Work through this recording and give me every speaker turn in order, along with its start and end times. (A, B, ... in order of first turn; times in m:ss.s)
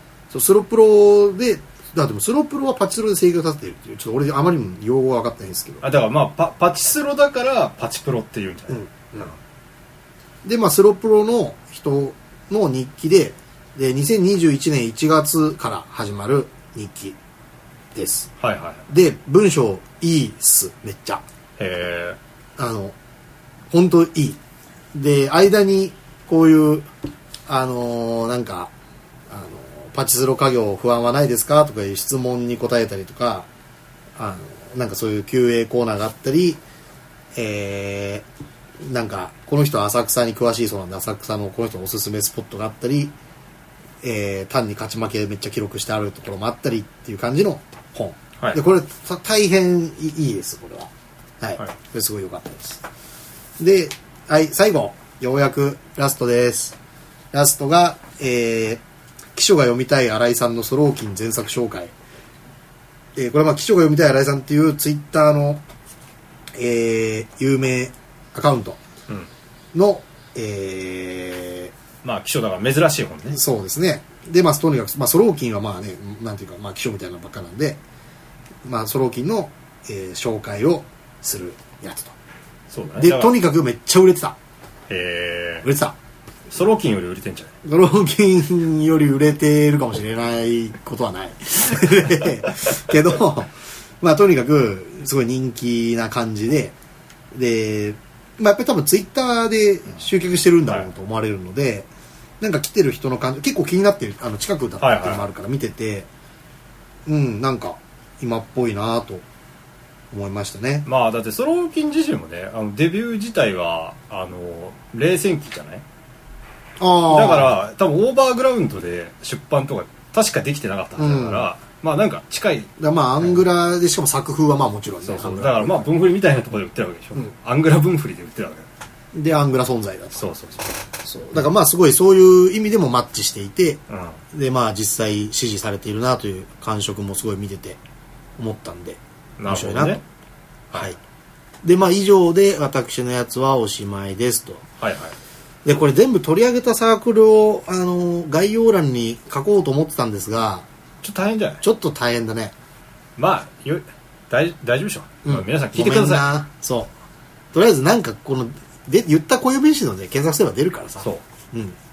0:00.3-0:05.8 A
0:05.8-0:09.4 B
0:08.7-0:09.3 A
0:10.4-0:17.2 A
0:17.9-0:18.3 A
0:18.4-0:18.8 B
0:18.9-0:21.2 A
0:21.6-0:22.2 B
0:22.6-0:23.0 A
0:23.7-0:24.4 A
0:24.9-0:26.9 A
0:27.5-0:28.7 A
0:29.3-0:33.5 A
0:34.2-0:36.6 A
0:37.3-0:38.2 A
0:38.8-0:43.1 A
0:44.0-0:52.8 A
0:53.6-0:56.8 A
0:57.3-0:58.8 A
0:59.3-1:01.9 A
1:03.1-1:05.6 A
1:06.5-1:08.8 A
1:09.7-1:11.7 A
1:12.0-1:13.4 B
1:13.3-1:17.8 A
1:18.6-1:22.1 A
1:22.7-1:23.3 B
1:23.0-1:24.4 A
1:24.9-1:25.7 B
1:25.6-1:26.0 A
1:26.5-1:27.5 B
1:27.6-1:36.7 A
1:37.3-1:41.9 A
1:42.4-1:46.1 A
1:44.8-1:45.3 B
1:47.0-1:49.2 A
1:50.1-1:50.8 A
1:50.8-1:55.8 B
1:56.8-1:57.5 A
1:57.0-2:03.4 B
2:01.0-2:01.5 A
2:02.8-2:05.9 A
2:05.0-2:08.7 B
2:09.1-2:10.3 A
2:10.2-2:10.7 B
2:11.0-2:13.8 A
2:13.9-2:14.2 B
2:14.3-2:17.8 A
2:18.4-2:20.0 A
2:19.4-2:20.0 B
2:21.6-2:24.7 A
2:24.8-2:25.2 B
2:25.6-2:30.6 A
2:31.0-2:31.6 B
2:31.6-2:32.5 A
2:33.2-2:36.3 B
2:35.2-2:36.9 A
2:37.5-2:41.8 A